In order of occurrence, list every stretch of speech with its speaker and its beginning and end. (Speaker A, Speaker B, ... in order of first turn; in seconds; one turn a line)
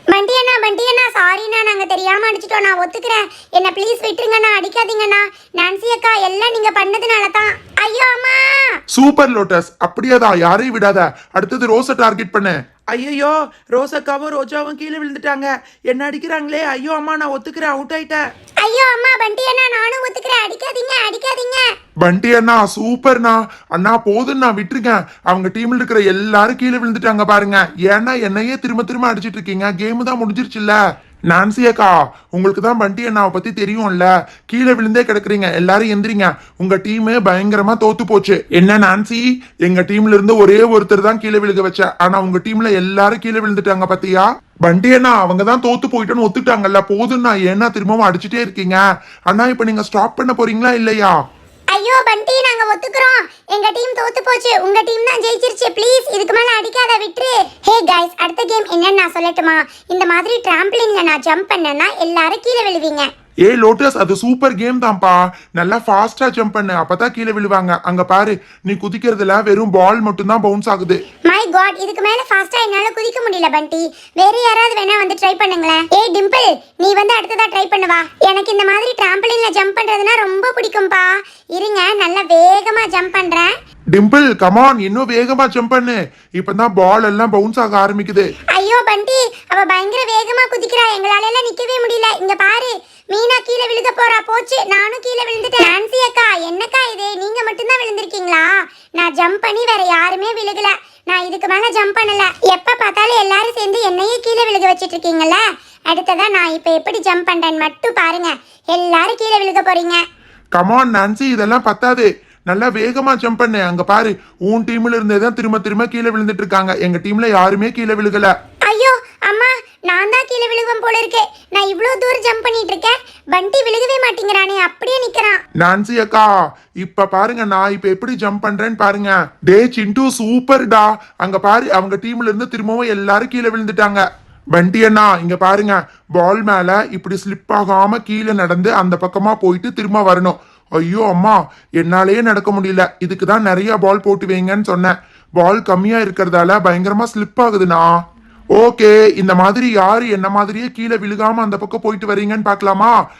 Speaker A: 0.1-8.8
Speaker B: 8.9-12.5
Speaker C: 12.9-18.2
Speaker A: 18.6-21.7
Speaker B: 22.0-51.1
Speaker A: 51.7-63.1
Speaker B: 63.5-71.0
Speaker A: 71.3-83.5
Speaker B: 84.0-88.3
Speaker A: 88.5-110.0
Speaker B: 110.6-118.3
Speaker A: 118.7-125.4
Speaker B: 125.6-126.3
Speaker B: 126.8-147.9
Speaker B: 148.6-153.0